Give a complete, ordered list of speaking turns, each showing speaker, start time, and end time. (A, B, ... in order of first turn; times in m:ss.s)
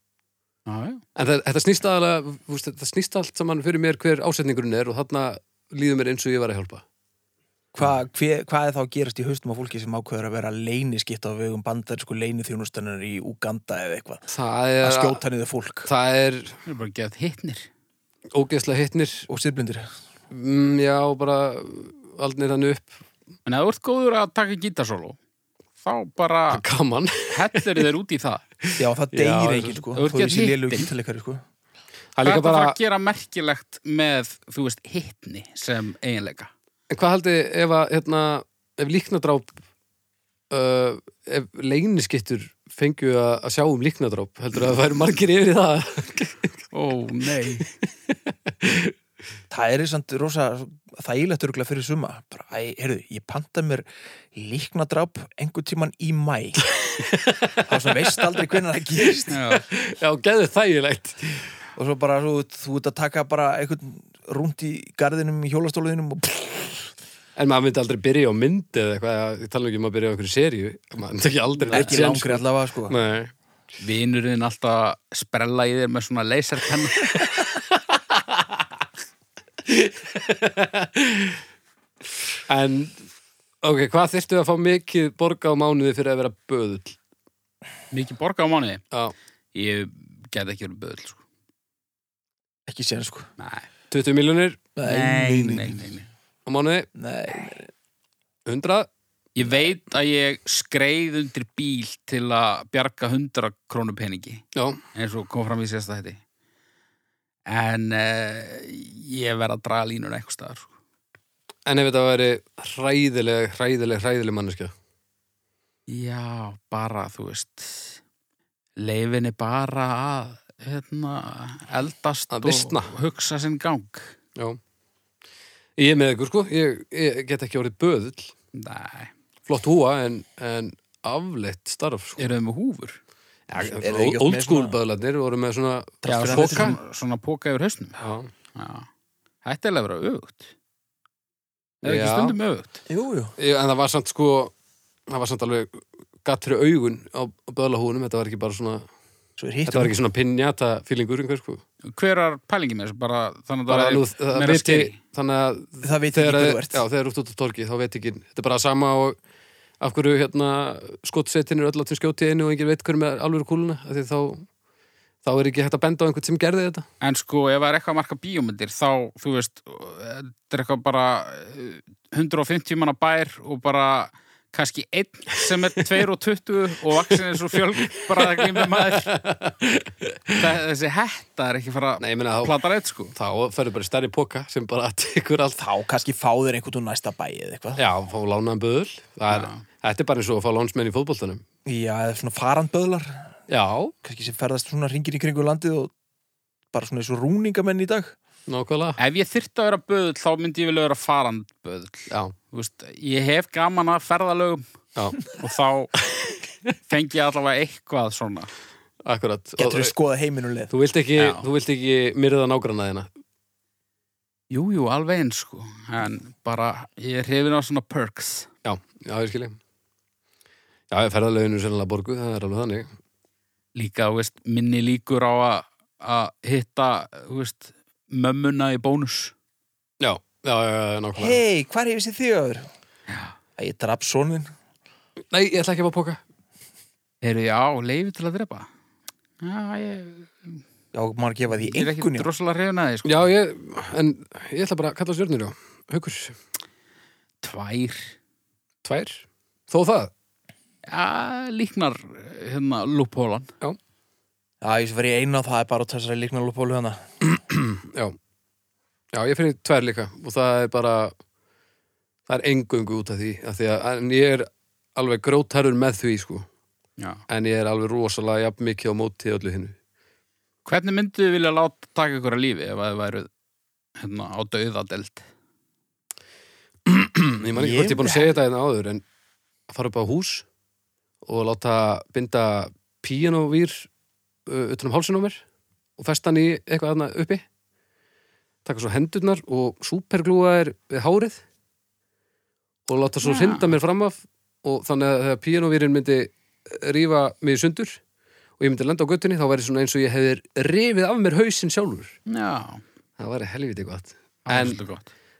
0:00.6-0:01.0 A
0:01.2-0:06.8 B
0:07.7-0:14.2 C
0:14.3-0:15.2 B
0:14.8-0:15.9 C
0:15.8-0:16.6 B
0:16.6-0:17.7 A
0:18.3-0:19.3 B
0:19.3-0:19.8 C
0:20.3-0:22.9 B
0:23.4-0:25.2 A
0:25.8-0:26.6 A
0:26.5-0:27.8 B
0:27.3-0:28.4 A
0:28.6-0:29.8 B
0:28.8-0:31.4 C
0:30.0-0:30.9 A
0:32.2-0:32.8 B
0:32.2-0:36.5 A
0:36.9-0:39.5 B
0:40.5-0:46.6 B
0:46.7-0:47.6 A
0:48.5-0:48.9 B
0:49.5-0:56.6 C
0:57.0-0:58.2 B
0:57.7-0:59.4 C
0:59.3-0:59.6 A
0:59.5-1:01.5 B
1:01.8-1:06.9 C
1:07.4-1:13.3 B
1:11.7-1:13.0 C
1:13.8-1:17.1 A
1:17.3-1:18.4 B
1:19.6-1:21.4 B
1:22.5-1:23.0 B
1:23.6-1:27.0 B
1:27.9-1:28.8 A
1:29.5-1:31.2 A
1:32.7-1:33.3 C
1:33.4-1:33.7 A
1:33.9-1:34.6 B
1:34.8-1:35.8 C
1:34.8-1:36.1 A
1:36.4-1:36.9 B
1:36.9-1:37.7 C
1:38.4-1:38.9 B
1:39.4-1:44.4 A
1:44.5-1:44.8 B
1:44.9-1:46.2 A
1:47.5-1:50.7 A
1:51.6-1:54.7 B
1:55.9-1:58.0 A
1:58.8-2:04.1 A
2:02.3-2:02.9 B
2:05.8-2:08.3 B
2:08.5-2:09.1 A
2:09.5-2:12.2 B
2:12.2-2:13.0 A
2:13.5-2:16.8 B
2:13.6-2:14.8 C
2:16.0-2:16.8 C
2:16.0-2:18.0 A
2:18.0-2:18.3 B
2:18.5-2:18.9 A
2:19.4-2:20.5 A
2:21.8-2:22.8 A
2:21.8-2:22.4 B
2:22.9-2:23.3 C
2:23.4-2:24.5 B
2:25.1-2:28.9 B
2:29.4-2:30.0 C
2:29.6-2:31.6 B
2:31.8-2:35.0 A
2:33.7-2:39.2 B
2:35.8-2:36.8 C
2:39.8-2:44.4 B
2:45.2-2:46.9 B
2:47.0-2:59.1 A
2:57.8-3:00.4 B
3:00.3-3:03.1 A
3:02.0-3:02.5 B
3:03.1-3:05.6 B
3:05.6-3:07.8 C
3:07.8-3:11.4 B
3:09.3-3:09.6 A
3:11.6-3:13.3 C
3:13.5-3:13.9 B
3:14.0-3:15.9 C
3:16.7-3:18.1 C
3:18.5-3:19.0 B
3:19.0-3:24.6 A
3:25.3-3:25.9 A
3:26.9-3:28.5 A
3:29.0-3:29.9 B
3:29.6-3:30.7 C
3:30.7-3:33.1 B
3:31.2-3:31.4 A
3:34.5-3:38.5 A
3:38.6-3:39.6 B
3:40.9-3:42.9 B
3:43.7-3:49.3 A
3:50.0-3:51.4 B
3:51.2-3:52.7 C
3:53.1-3:53.3 A
3:53.6-3:54.5 C
3:55.3-3:56.2 B
3:57.2-3:58.7 A
3:59.4-4:00.6 A
4:00.9-4:02.3 C
4:01.5-4:03.2 A
4:03.0-4:06.4 B
4:07.4-4:08.1 A
4:08.8-4:10.1 B
4:10.8-4:13.5 A
4:14.6-4:17.0 C
4:17.2-4:18.2 B
4:19.1-4:21.1 B
4:22.3-4:26.5 B
4:27.3-4:29.7 B
4:30.6-4:33.3 A
4:34.0-4:35.2 A
4:36.8-4:39.0 B
4:37.6-4:38.3 C
4:39.7-4:40.4 B
4:41.2-4:43.9 B
4:44.5-4:45.4 B
4:46.0-4:47.4 B
4:48.6-4:51.4 B
4:52.9-4:58.0 B
4:53.2-4:53.8 A
4:58.6-5:02.2 B
5:02.3-5:02.8 A
5:03.2-5:04.8 B
5:04.4-5:05.1 A